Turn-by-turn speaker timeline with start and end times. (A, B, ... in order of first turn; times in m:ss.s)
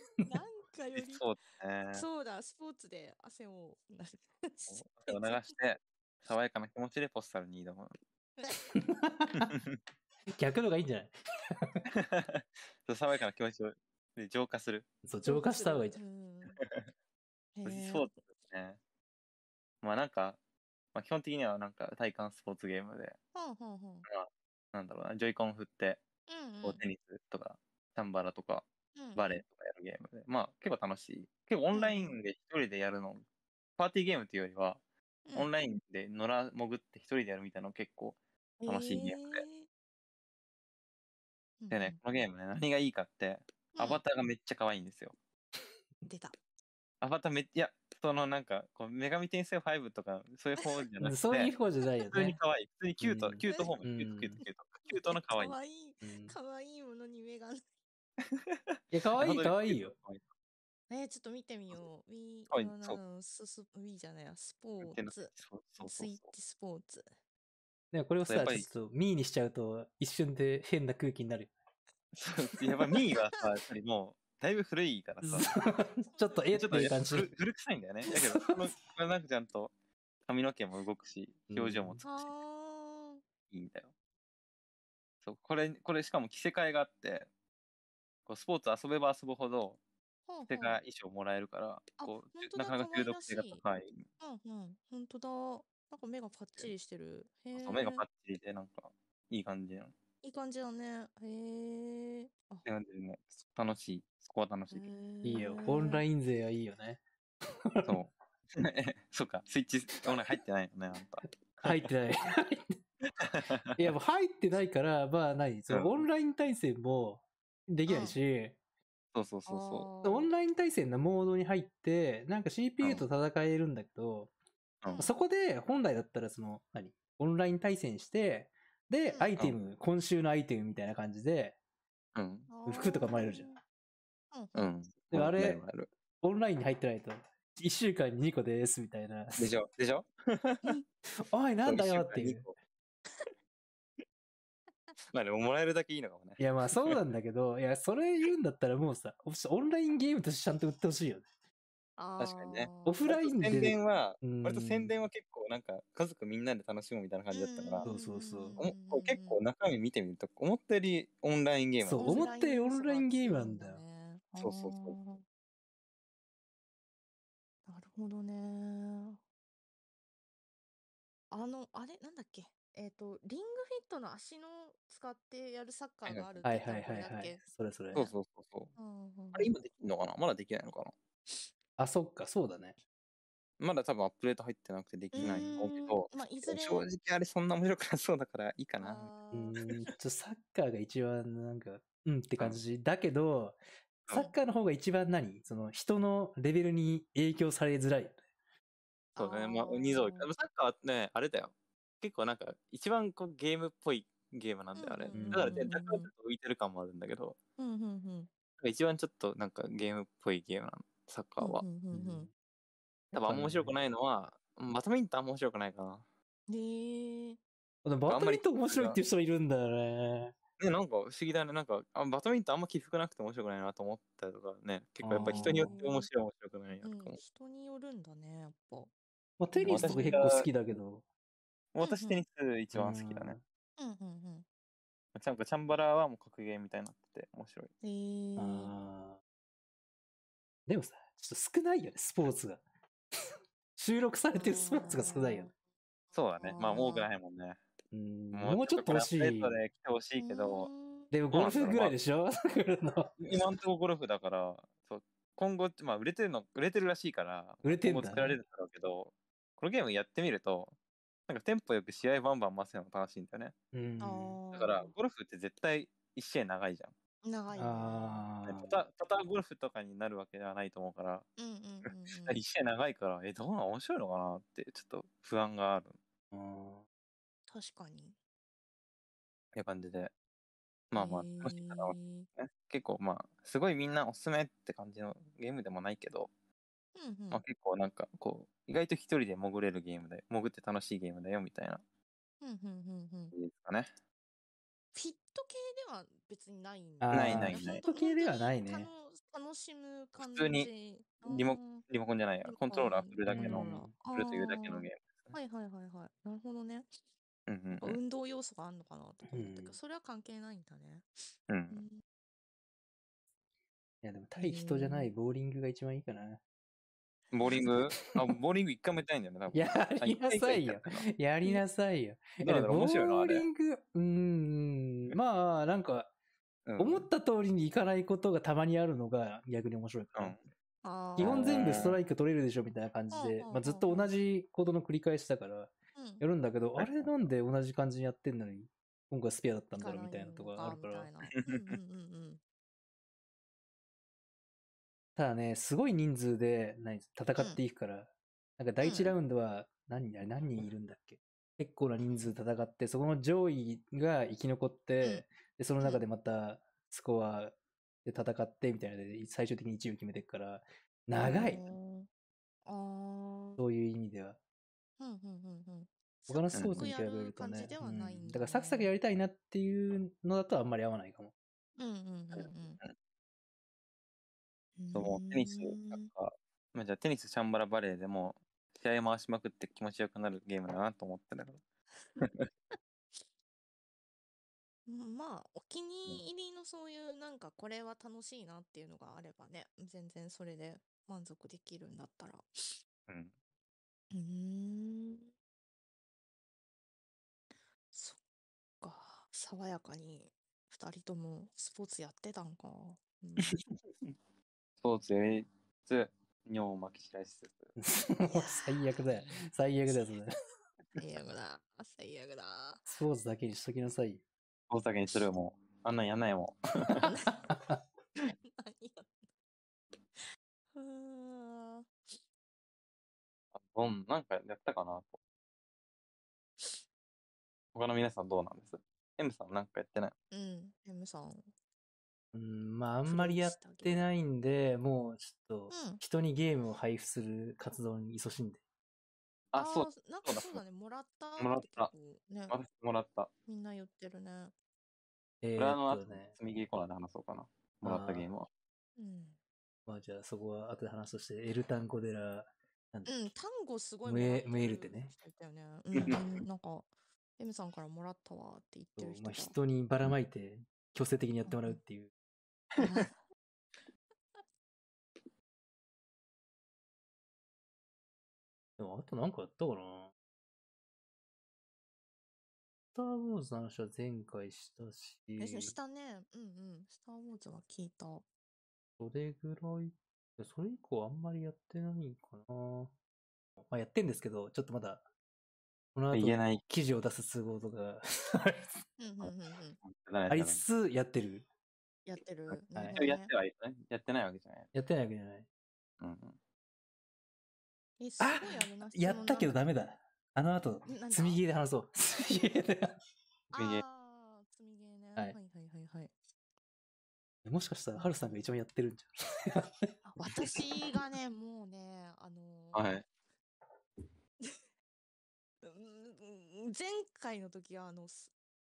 0:00.2-0:01.2 A
0:00.9-0:02.0 B
0:01.9-0:05.5 A
0:04.7-0:07.9 B
0:08.7-0:09.5 C
0:09.3-0:09.8 B
0:10.3-0:11.8 C
0:11.9-0:14.9 B
0:15.0-0:16.0 C
0:15.2-0:16.6 A
0:16.6-0:16.8 B
0:17.6-0:18.1 A
0:17.6-0:18.8 B
0:19.8-0:20.4 B
0:20.9-0:23.2 B
0:23.3-0:24.0 A
0:24.0-0:26.0 B
0:26.3-0:26.8 A
0:26.6-0:33.2 B
0:28.9-0:29.4 A
0:31.7-0:32.2 A
0:33.8-0:34.8 B
0:35.3-0:39.4 B
0:38.6-0:39.7 A
0:41.6-0:42.0 A
0:41.7-0:45.1 B
0:43.8-0:44.0 A
0:46.0-0:46.3 A
0:47.0-0:51.5 B
0:51.0-0:52.4 C
0:52.1-0:55.6 B
0:53.0-0:54.4 C
0:53.4-0:53.7 A
0:54.9-0:57.6 A
0:56.0-0:56.3 C
0:58.3-1:00.2 B
0:58.9-0:59.9 C
1:00.9-1:07.0 A
1:02.5-1:03.0 B
1:04.8-1:06.3 B
1:07.9-1:11.5 C
1:08.2-1:08.6 B
1:12.1-1:15.5 B
1:15.2-1:17.3 C
1:16.0-1:16.6 A
1:16.5-1:19.7 B
1:18.1-1:18.4 C
1:20.2-1:22.3 B
1:21.5-1:22.0 C
1:22.0-1:23.2 A
1:23.5-1:23.9 B
1:25.2-1:27.3 B
1:28.3-1:29.8 B
1:30.3-1:30.8 A
1:30.5-1:34.0 B
1:32.0-1:33.6 A
1:34.2-1:38.0 A
1:37.5-1:39.9 B
1:40.2-1:42.6 A
1:42.6-1:44.9 B
1:44.7-1:46.0 A
1:45.2-1:47.0 C
1:47.6-1:48.0 C
1:47.8-1:51.9 B
1:51.6-1:52.7 C
1:53.2-1:53.8 B
1:53.7-1:58.6 C
1:55.7-1:56.0 B
1:57.9-1:58.2 A
1:59.1-1:59.9 B
1:59.5-2:00.3 A
2:00.0-2:04.3 C
2:04.9-2:05.1 A
2:05.0-2:11.6 C
2:09.1-2:09.3 A
2:12.1-2:12.5 B
2:12.5-2:13.6 A
2:12.6-2:13.5 C
2:14.3-2:14.7 A
2:14.5-2:15.9 B
2:15.1-2:15.6 C
2:16.2-2:19.5 C
2:19.4-2:20.7 B
2:21.2-2:22.4 C
2:21.6-2:22.5 B
2:25.1-2:27.0 B
2:26.4-2:31.2 C
2:32.0-2:33.1 A
2:32.2-2:37.9 B
2:32.8-2:34.9 C
2:37.3-2:39.4 A
2:37.8-2:38.6 C
2:38.6-2:42.2 B
2:41.8-2:43.8 C
2:42.0-2:45.2 A
2:44.4-2:45.0 B
2:47.7-2:49.2 A
2:51.3-2:57.4 A
2:56.0-2:56.4 B
2:56.4-2:58.1 C
2:57.9-2:58.7 B
2:58.8-2:59.5 A
2:59.3-3:00.9 B
3:01.8-3:02.8 C
3:03.6-3:09.1 B
3:05.1-3:06.8 A
3:05.2-3:05.5 C
3:08.8-3:09.9 A
3:09.3-3:13.6 C
3:14.1-3:18.2 C
3:19.2-3:20.3 A
3:19.2-3:27.4 B
3:24.7-3:26.1 A
3:25.1-3:25.7 C
3:27.6-3:28.3 A
3:28.6-3:31.6 B
3:31.4-3:32.3 A
3:31.9-3:32.3 C
3:33.1-3:36.0 B
3:33.1-3:33.7 C
3:36.5-3:37.4 A
3:37.8-3:40.3 C
3:38.1-3:39.0 B
3:40.6-3:47.2 B
3:45.0-3:45.7 C
3:45.2-3:46.1 A
3:46.8-3:48.9 A
3:49.4-3:51.0 C
3:49.5-3:50.3 A
3:49.6-3:50.5 B
3:51.7-3:53.4 B
3:51.8-3:52.2 A
3:52.7-3:53.4 C
3:53.8-3:54.4 A
3:55.1-3:57.7 B
3:57.8-3:58.7 A
3:58.4-3:59.2 C
4:00.7-4:02.6 C
4:03.8-4:05.5 C
4:04.3-4:05.5 A
4:06.1-4:07.6 B
4:06.4-4:07.1 A
4:07.9-4:09.6 C
4:08.3-4:10.7 B
4:10.2-4:11.1 A
4:11.1-4:13.4 C
4:11.3-4:11.9 B
4:13.2-4:20.7 B
4:17.6-4:18.4 C
4:21.3-4:23.5 B
4:23.7-4:24.4 C
4:24.0-4:24.9 A
4:24.5-4:26.9 B
4:27.2-4:28.2 A
4:27.5-4:28.8 C
4:28.4-4:31.3 B
4:31.4-4:32.4 A
4:31.8-4:36.0 B
4:36.3-4:36.8 C
4:37.5-4:38.1 A
4:39.5-4:40.1 B
4:40.9-4:46.3 B
4:41.0-4:42.3 A
4:46.9-4:47.4 A
4:47.3-4:51.8 B
4:52.4-4:53.3 A
4:53.3-4:53.9 B
4:54.9-5:01.8 A
4:57.0-4:58.9 C
4:57.1-4:57.8 B
5:00.2-5:00.7 B
5:01.2-5:05.3 B
5:02.4-5:06.9 A
5:03.3-5:03.9 C
5:07.5-5:08.0 B
5:07.8-5:11.1 A
5:09.3-5:09.8 C
5:11.5-5:11.8 B
5:11.7-5:12.0 A
5:14.0-5:16.4 C
5:14.4-5:15.1 A
5:17.3-5:21.0 B
5:17.6-5:18.1 C
5:19.5-5:26.1 C
5:22.4-5:23.5 B
5:26.6-5:27.1 B
5:26.8-5:30.4 C
5:30.2-5:30.4 B
5:30.8-5:31.8 A
5:31.2-5:32.0 B
5:31.2-5:41.1 C
5:33.1-5:34.1 A
5:35.9-5:36.2 A
5:36.8-5:37.1 B
5:39.8-5:42.4 A
5:41.3-5:41.8 B
5:45.2-6:01.6 C
5:48.8-5:49.1 A
6:01.1-6:02.1 A
6:02.6-6:03.6 A
6:03.6-6:04.4 C
6:05.0-6:08.9 A
6:06.3-6:11.3 C
6:06.5-6:06.8 B
6:11.8-6:12.8 A
6:14.8-6:16.1 A
6:14.9-6:21.6 B
6:22.2-6:22.5 B
6:24.8-6:32.7 A
6:33.1-6:33.3 B
6:34.1-6:35.3 A
6:37.9-6:38.2 A
6:38.8-6:43.6 A
6:44.8-6:47.7 B
6:47.8-6:50.3 C
6:48.2-6:50.2 A
6:51.0-6:52.9 A
6:52.9-6:54.2 C
6:54.7-6:57.1 B
6:57.0-6:57.6 A
6:58.2-6:59.1 A
7:00.7-7:02.2 A
7:03.6-7:05.2 B
7:07.7-7:10.1 B
7:10.3-7:11.5 A
7:12.3-7:18.6 C
7:13.0-7:14.1 A
7:15.7-7:16.0 A
7:19.5-7:20.6 B
7:19.6-7:22.6 A
7:21.4-7:21.9 B
7:22.5-7:23.3 B
7:23.5-7:24.5 A
7:25.4-7:26.3 C
7:25.6-7:28.5 B
7:27.8-7:28.3 C
7:29.0-7:29.4 A
7:29.8-7:33.1 C
7:33.0-7:39.6 A
7:34.0-7:35.1 C
7:39.0-7:42.1 C
7:41.4-7:41.8 A
7:42.8-7:43.2 A
7:48.8-7:50.1 C
7:52.9-7:55.8 C
7:55.4-7:58.2 A
7:59.0-8:02.9 C
8:03.6-8:05.0 C
8:05.9-8:08.8 C
8:06.1-8:06.6 B
8:09.0-8:09.8 A
8:09.8-8:10.6 B
8:10.3-8:11.4 C
8:12.0-8:13.3 A
8:12.9-8:14.7 B
8:14.7-8:15.4 C
8:16.0-8:16.4 B
8:18.0-8:19.6 A
8:18.2-8:23.0 C
8:20.9-8:21.4 A
8:23.5-8:26.1 A
8:23.6-8:23.8 B
8:27.4-8:29.9 C
8:27.9-8:28.4 A
8:30.0-8:33.0 A
8:32.7-8:33.0 B
8:35.6-8:38.3 A